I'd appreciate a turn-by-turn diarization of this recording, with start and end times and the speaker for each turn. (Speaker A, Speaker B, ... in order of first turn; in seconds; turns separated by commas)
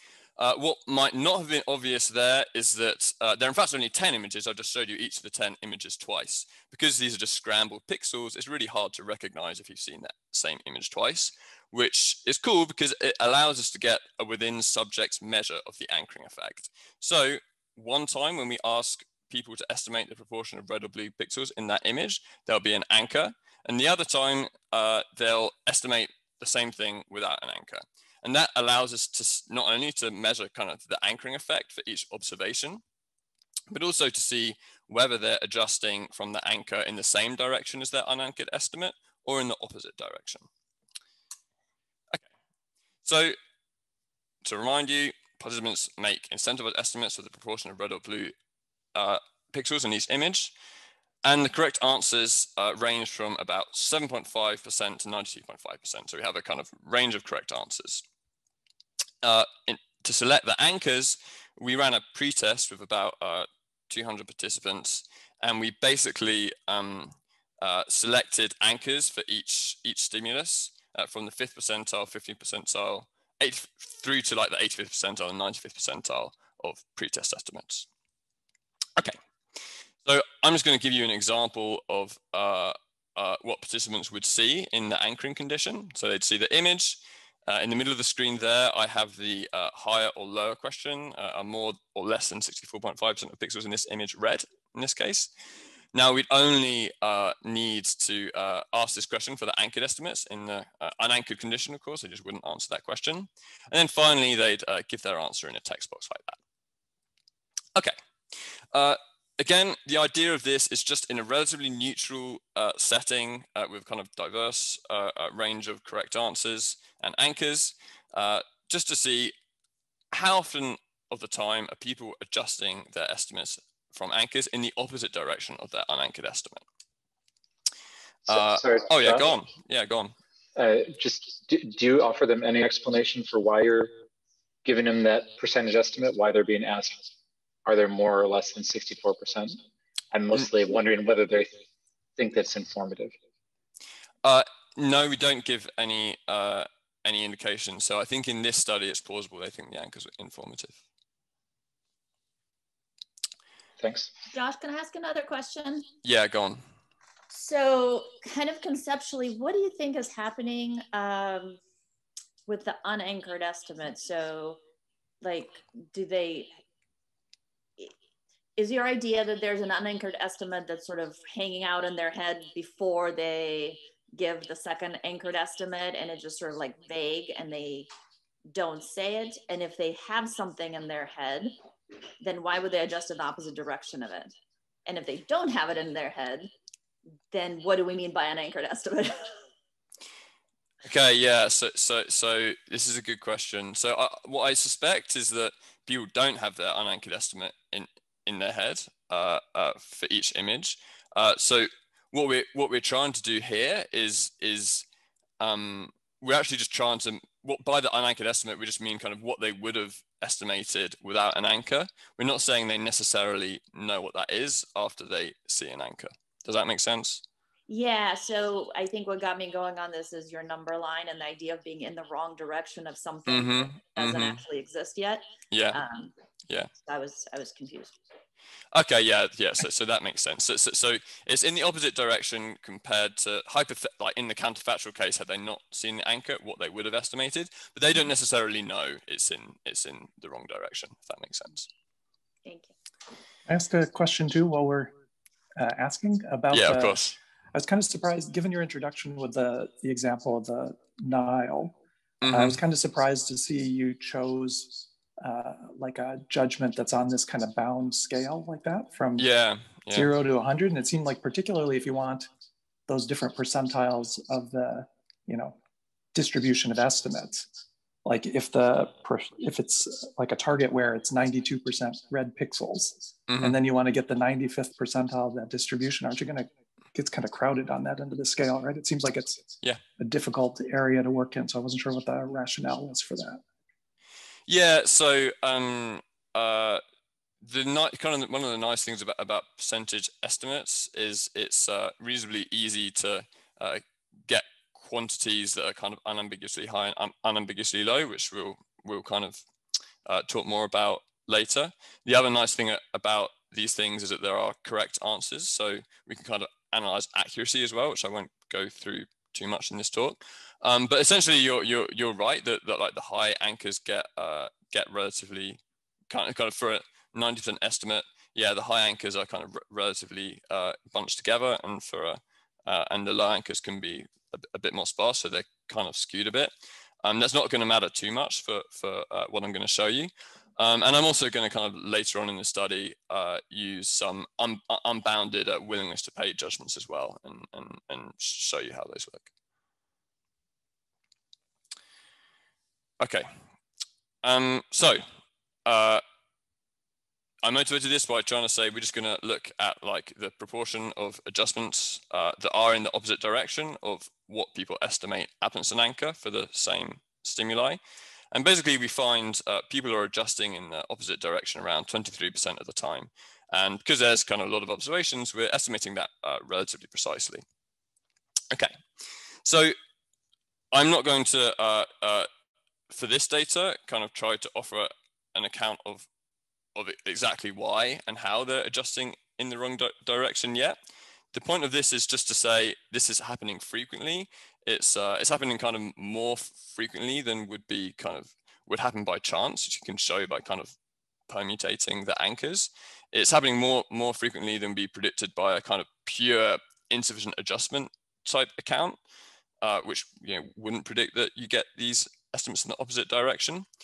Speaker A: 0.4-32.8, Speaker A: 33.7-40.5, Speaker A: 43.0-43.4, Speaker A: 44.4-48.3, Speaker A: 48.9-50.5, Speaker A: 51.2-58.0, Speaker A: 59.2-77.9, Speaker A: 80.0-95.3, Speaker A: 95.9-106.4, Speaker A: 108.7-119.3, Speaker A: 120.1-126.6, Speaker A: 128.3-130.1, Speaker B: 128.3-129.3, Speaker B: 130.6-133.9, Speaker B: 134.6-137.1, Speaker B: 137.7-139.6, Speaker B: 140.1-141.6, Speaker B: 142.2-143.1, Speaker A: 144.2-150.8, Speaker B: 153.8-154.1, Speaker C: 154.3-155.9, Speaker A: 156.0-156.6, Speaker C: 157.3-161.6, Speaker C: 162.5-164.6, Speaker C: 165.2-166.5, Speaker C: 168.6-177.9, Speaker C: 178.5-181.5, Speaker C: 182.2-184.3, Speaker C: 184.8-186.5, Speaker C: 187.3-189.4, Speaker A: 190.8-204.8, Speaker A: 205.4-217.2, Speaker C: 217.7-226.1, Speaker A: 223.3-224.4, Speaker A: 225.5-225.8, Speaker C: 226.8-228.0, Speaker A: 228.7-241.7, Speaker C: 242.4-242.7, Speaker D: 243.5-244.9, Speaker D: 245.6-247.0, Speaker A: 246.5-247.2, Speaker D: 247.5-259.3, Speaker A: 252.2-252.6, Speaker A: 259.2-260.1, Speaker D: 259.9-262.3, Speaker D: 262.9-265.6, Speaker D: 266.1-267.5, Speaker D: 268.0-279.4, Speaker A: 273.3-273.6, Speaker D: 280.0-283.4, Speaker A: 284.5-286.8, Speaker A: 287.4-299.4, Speaker A: 300.1-315.6, Speaker A: 316.1-326.5, Speaker A: 327.0-339.3, Speaker A: 343.0-343.3, Speaker A: 344.2-345.1, Speaker A: 345.6-346.0, Speaker A: 347.4-357.8, Speaker A: 358.3-367.4, Speaker A: 368.5-368.8, Speaker A: 369.4-369.7, Speaker A: 370.7-372.3, Speaker A: 372.9-376.1, Speaker A: 376.8-380.8, Speaker A: 381.3-390.7, Speaker A: 391.3-399.0, Speaker A: 399.6-403.6